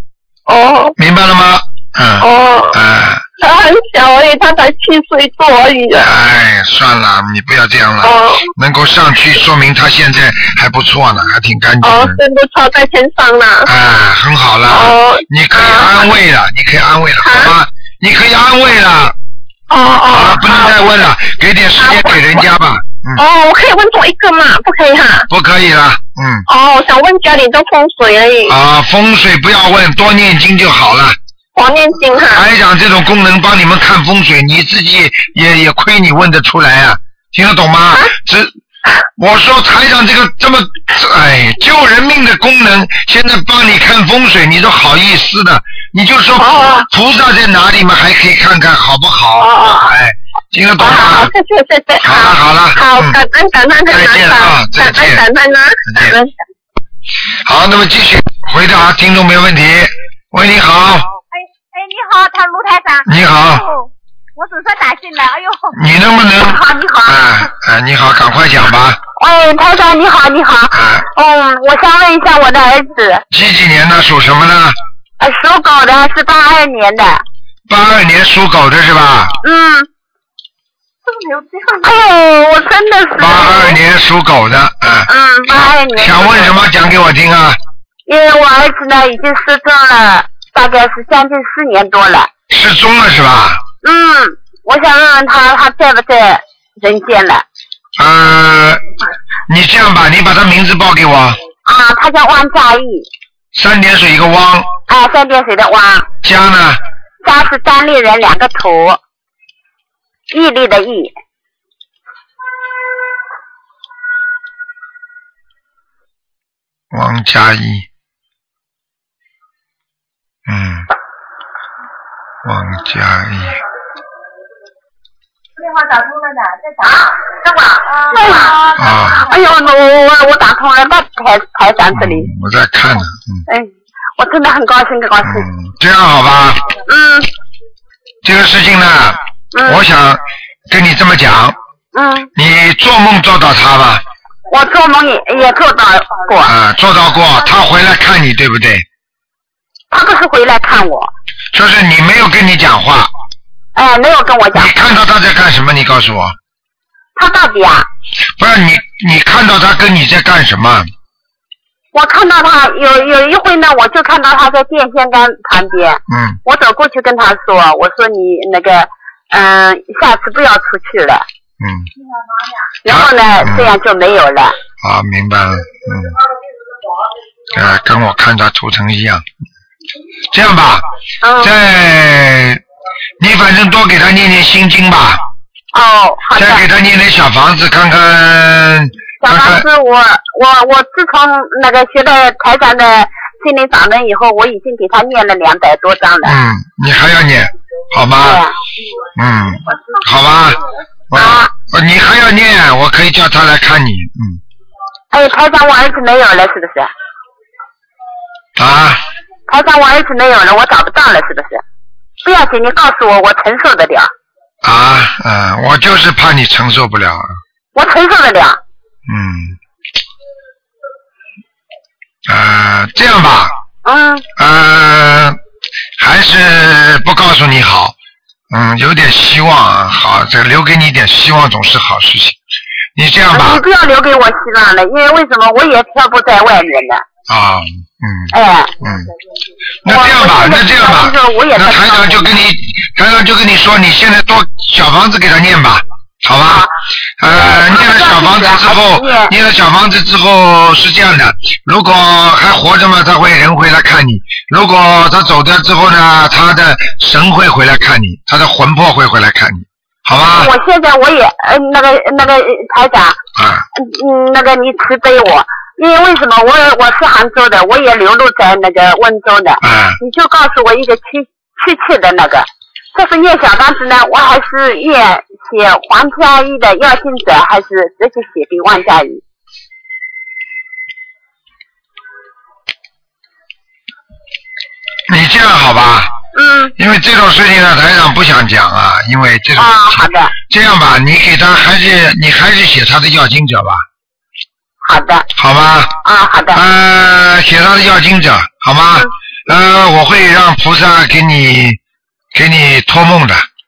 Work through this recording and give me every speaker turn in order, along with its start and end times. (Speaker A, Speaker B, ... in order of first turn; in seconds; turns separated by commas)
Speaker A: 0.5-0.9, Speaker B: 1.0-3.2, Speaker A: 2.2-2.8, Speaker A: 3.4-6.1, Speaker B: 5.9-12.2, Speaker A: 8.0-8.5, Speaker A: 11.8-13.7, Speaker B: 13.6-19.1, Speaker A: 14.7-16.1, Speaker A: 17.2-17.6, Speaker A: 19.7-20.9, Speaker B: 20.1-23.2, Speaker A: 21.8-22.4, Speaker A: 23.1-25.3, Speaker B: 25.3-26.4, Speaker A: 26.5-28.6, Speaker B: 28.5-31.2, Speaker A: 31.5-32.4, Speaker B: 32.3-38.5, Speaker B: 39.2-51.3, Speaker A: 46.4-46.9, Speaker A: 49.4-49.9, Speaker A: 50.8-56.3, Speaker B: 52.0-53.2, Speaker B: 53.9-55.2, Speaker B: 55.9-56.2, Speaker B: 57.4-61.1, Speaker C: 61.8-63.0, Speaker B: 63.0-63.7, Speaker C: 64.4-65.6, Speaker B: 65.7-69.0, Speaker C: 66.4-67.2, Speaker C: 69.2-73.2, Speaker B: 70.7-71.1, Speaker B: 73.3-74.8, Speaker C: 75.2-77.2, Speaker B: 77.7-79.4, Speaker C: 79.4-79.9, Speaker A: 81.1-81.9, Speaker C: 81.8-83.8, Speaker B: 83.2-85.1, Speaker C: 85.1-86.6, Speaker B: 85.9-87.6, Speaker C: 88.1-92.3, Speaker B: 92.5-93.6, Speaker C: 93.8-97.4, Speaker B: 98.0-98.8, Speaker B: 99.5-101.4, Speaker C: 101.6-103.1, Speaker B: 103.5-104.7, Speaker C: 104.9-106.1, Speaker B: 106.2-106.8, Speaker C: 107.2-109.0, Speaker C: 110.3-111.1, Speaker B: 116.9-117.9, Speaker B: 120.5-120.9, Speaker B: 122.4-123.6, Speaker A: 125.9-126.7, Speaker C: 126.8-132.3, Speaker B: 128.7-129.3, Speaker B: 131.9-133.4, Speaker C: 133.5-135.5, Speaker B: 135.2-136.8, Speaker C: 136.9-137.3, Speaker B: 138.2-141.6, Speaker C: 139.5-139.8, Speaker C: 141.9-142.3, Speaker B: 142.3-144.0, Speaker C: 144.5-146.5, Speaker B: 146.4-148.8, Speaker C: 149.9-151.1, Speaker B: 151.5-153.1, Speaker C: 153.8-154.7, Speaker B: 154.5-156.3, Speaker C: 157.2-157.9, Speaker B: 158.4-160.9, Speaker C: 161.9-171.2, Speaker B: 166.1-166.4, Speaker B: 171.6-171.9, Speaker C: 172.8-174.6, Speaker B: 172.8-173.7, Speaker B: 174.8-176.2, Speaker B: 177.5-179.2, Speaker B: 180.3-180.8, Speaker C: 181.2-181.5, Speaker B: 181.4-182.6, Speaker B: 183.2-185.2, Speaker C: 185.7-186.7, Speaker B: 186.3-189.7, Speaker C: 189.2-196.4, Speaker B: 196.2-198.4, Speaker C: 198.2-198.5, Speaker B: 199.2-200.6, Speaker B: 201.1-204.4, Speaker C: 201.1-201.5, Speaker C: 205.1-206.9, Speaker B: 208.6-209.0, Speaker C: 209.5-211.6, Speaker C: 212.2-214.1, Speaker B: 214.6-217.4, Speaker C: 217.7-218.6, Speaker B: 219.1-219.6, Speaker B: 222.3-223.5, Speaker C: 223.8-224.2, Speaker B: 224.3-225.4, Speaker B: 226.0-227.9, Speaker B: 228.5-232.4, Speaker B: 232.9-233.6, Speaker C: 233.3-237.0, Speaker B: 237.3-239.1, Speaker C: 238.3-238.7, Speaker B: 239.8-246.7, Speaker C: 239.8-242.2, Speaker B: 247.2-260.5, Speaker C: 247.3-249.3, Speaker C: 260.3-263.2, Speaker B: 263.4-263.6, Speaker C: 263.7-279.2, Speaker B: 269.6-270.0, Speaker B: 285.1-286.1, Speaker C: 286.3-286.7, Speaker B: 286.8-293.8, Speaker C: 289.6-290.3, Speaker C: 294.8-295.3, Speaker B: 295.4-295.9, Speaker C: 296.0-296.6, Speaker B: 296.5-301.8, Speaker B: 302.3-303.4